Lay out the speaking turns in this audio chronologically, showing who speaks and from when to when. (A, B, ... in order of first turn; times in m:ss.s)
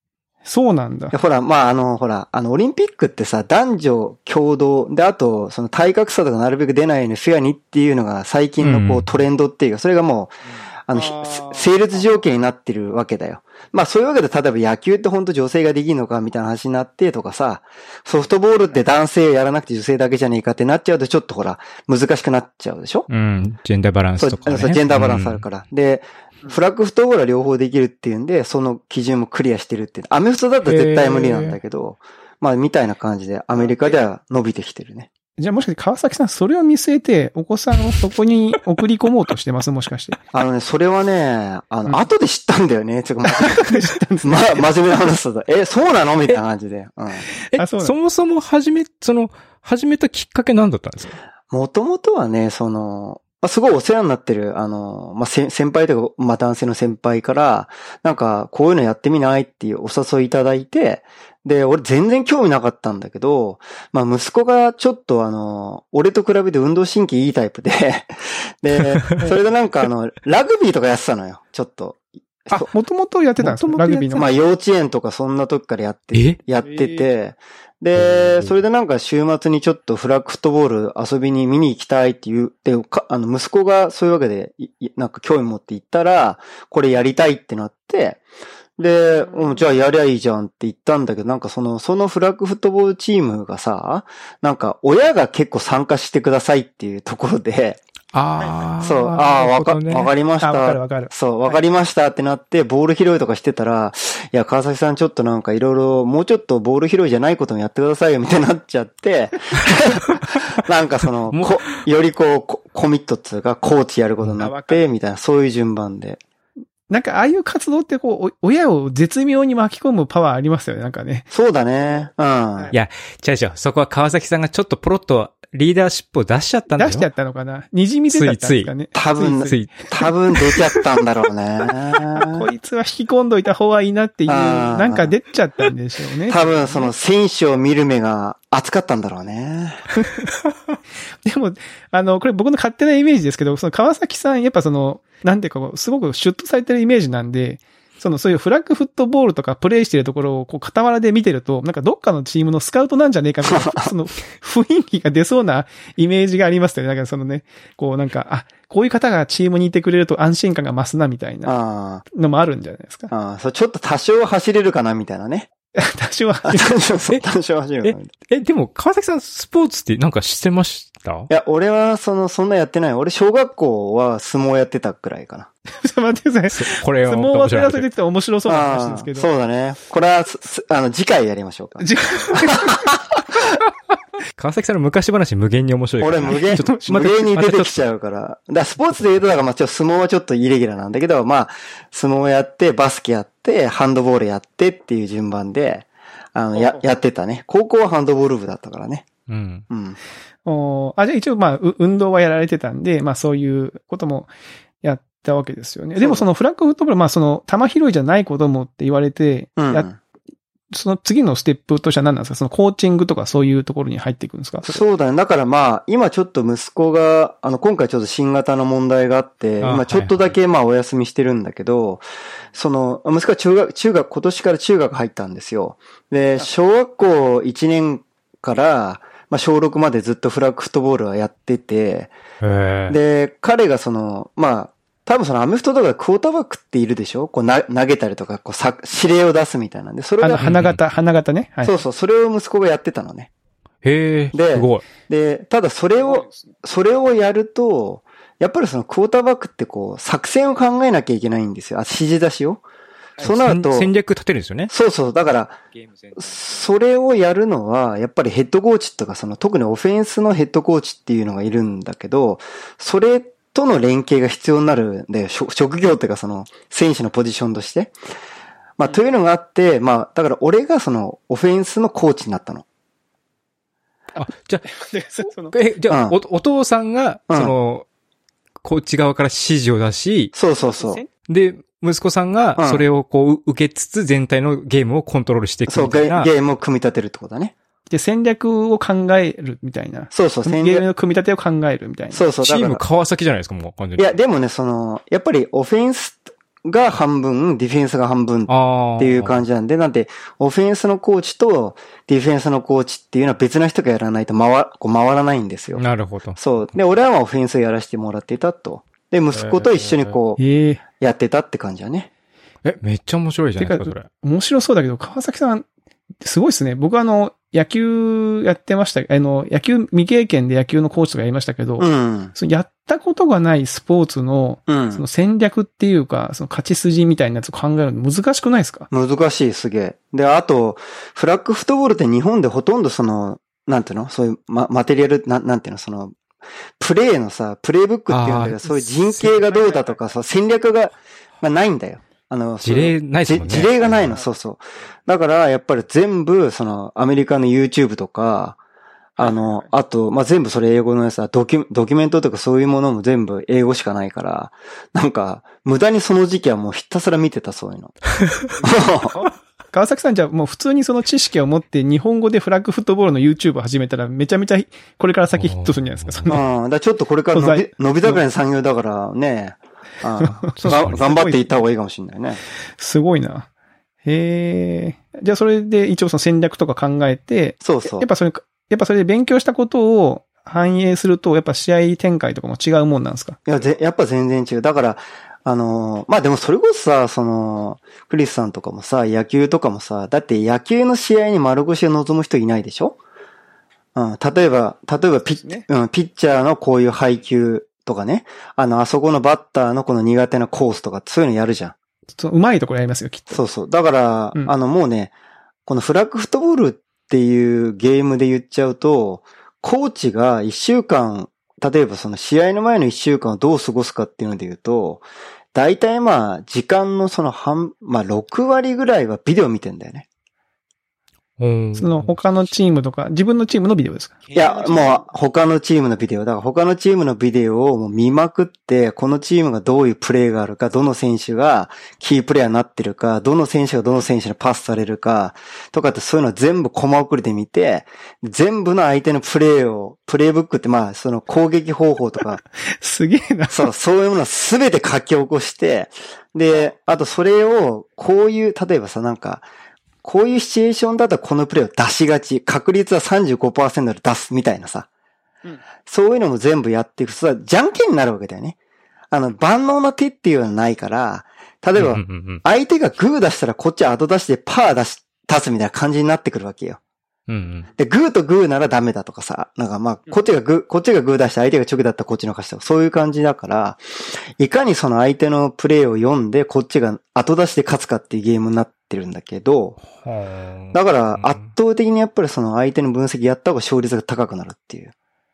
0:00.4-0:01.1 A
0:01.1-0:10.4 B
0:08.6-0:09.1 C
0:10.9-0:23.1 B
0:11.0-0:11.8 A
0:23.1-0:25.4 C
0:24.2-0:35.1 B
0:30.6-0:31.6 C
0:33.6-0:34.0 A
0:35.4-0:40.2 A
0:40.3-0:43.7 B
0:43.4-0:44.6 A
0:44.2-0:47.2 B
0:47.5-0:51.2 C
0:47.6-0:48.0 A
0:51.5-1:12.7 B
1:12.5-1:14.3 A
1:13.4-1:14.2 C
1:14.1-1:28.2 B
1:16.1-1:16.4 C
1:16.6-1:17.1 A
1:17.9-1:18.6 C
1:28.8-1:37.8 B
1:38.1-1:40.1 C
1:38.8-1:56.2 B
1:40.4-1:41.6 A
1:51.3-1:51.6 C
1:54.4-1:54.8 A
1:56.9-2:01.3 A
2:01.3-2:02.7 B
2:02.7-2:07.1 C
2:06.8-2:09.7 A
2:08.1-2:08.7 C
2:09.0-2:12.5 B
2:09.4-2:10.6 C
2:12.2-2:16.9 A
2:14.3-2:15.2 B
2:16.3-2:19.9 B
2:21.2-2:41.6 A
2:33.4-2:33.9 B
2:41.4-2:42.0 B
2:42.1-2:43.1 A
2:43.1-2:45.5 B
2:45.8-2:46.7 A
2:46.4-2:48.1 B
2:47.8-2:51.3 C
2:51.3-2:55.5 B
2:55.8-2:59.3 A
2:56.5-2:57.9 C
2:58.5-3:03.2 B
3:01.8-3:02.9 A
3:04.4-3:07.8 C
3:06.0-3:19.1 B
3:06.5-3:06.9 A
3:16.6-3:16.8 A
3:19.3-3:19.6 C
3:19.7-3:20.0 B
3:20.5-3:24.3 A
3:24.8-3:29.9 A
3:26.0-3:26.2 B
3:29.6-3:30.0 B
3:30.7-3:34.8 A
3:34.6-3:52.1 B
3:39.6-3:40.3 C
3:52.4-3:53.0 C
3:52.9-4:00.6 B
4:00.2-4:01.8 A
4:00.4-4:00.8 C
4:01.6-4:03.3 B
4:03.8-4:04.9 C
4:04.3-4:12.6 B
4:13.2-4:13.9 B
4:13.2-4:14.7 C
4:14.7-4:15.6 B
4:16.2-4:27.9 B
4:28.8-4:32.6 B
4:34.2-4:34.6 C
4:34.6-4:35.6 A
4:35.5-4:37.9 C
4:35.9-4:36.2 B
4:38.6-4:40.3 C
4:40.3-4:41.0 B
4:40.7-4:41.1 A
4:41.3-4:46.3 C
4:42.6-4:42.8 B
4:45.7-4:47.5 B
4:47.9-4:52.2 A
4:50.1-4:50.9 B
4:52.1-4:52.8 B
4:52.4-4:54.2 C
4:54.0-5:05.8 B
4:58.5-4:59.4 C
5:05.8-5:06.4 C
5:06.4-5:10.4 B
5:09.3-5:10.8 C
5:11.0-5:12.1 B
5:12.6-5:14.1 C
5:13.6-5:15.6 A
5:16.2-5:28.9 A
5:21.8-5:22.3 B
5:24.7-5:25.0 B
5:28.9-5:36.2 B
5:36.8-5:48.6 B
5:38.1-5:39.4 C
5:39.4-5:40.0 A
5:42.6-5:44.2 C
5:49.2-5:49.6 A
5:49.2-5:58.0 B
5:58.6-5:59.2 B
5:59.1-6:06.4 A
6:05.4-6:06.4 C
6:06.3-6:12.4 B
6:07.3-6:08.2 A
6:10.2-6:11.6 A
6:10.5-6:11.1 C
6:12.8-6:13.5 A
6:14.0-6:23.4 A
6:17.6-6:18.1 B
6:23.5-6:33.0 B
6:34.0-6:41.8 B
6:42.2-6:43.4 A
6:43.3-6:45.1 B
6:45.7-7:00.1 B
7:01.4-7:02.2 C
7:01.8-7:04.9 A
7:04.3-7:22.4 B
7:22.7-7:23.7 A
7:23.5-7:29.5 B
7:30.0-7:34.9 B
7:35.9-7:38.6 B
7:39.1-7:46.8 B
7:41.8-7:42.4 C
7:47.3-7:47.7 C
7:47.8-7:59.8 B
7:59.8-8:01.5 C
8:00.7-8:04.9 B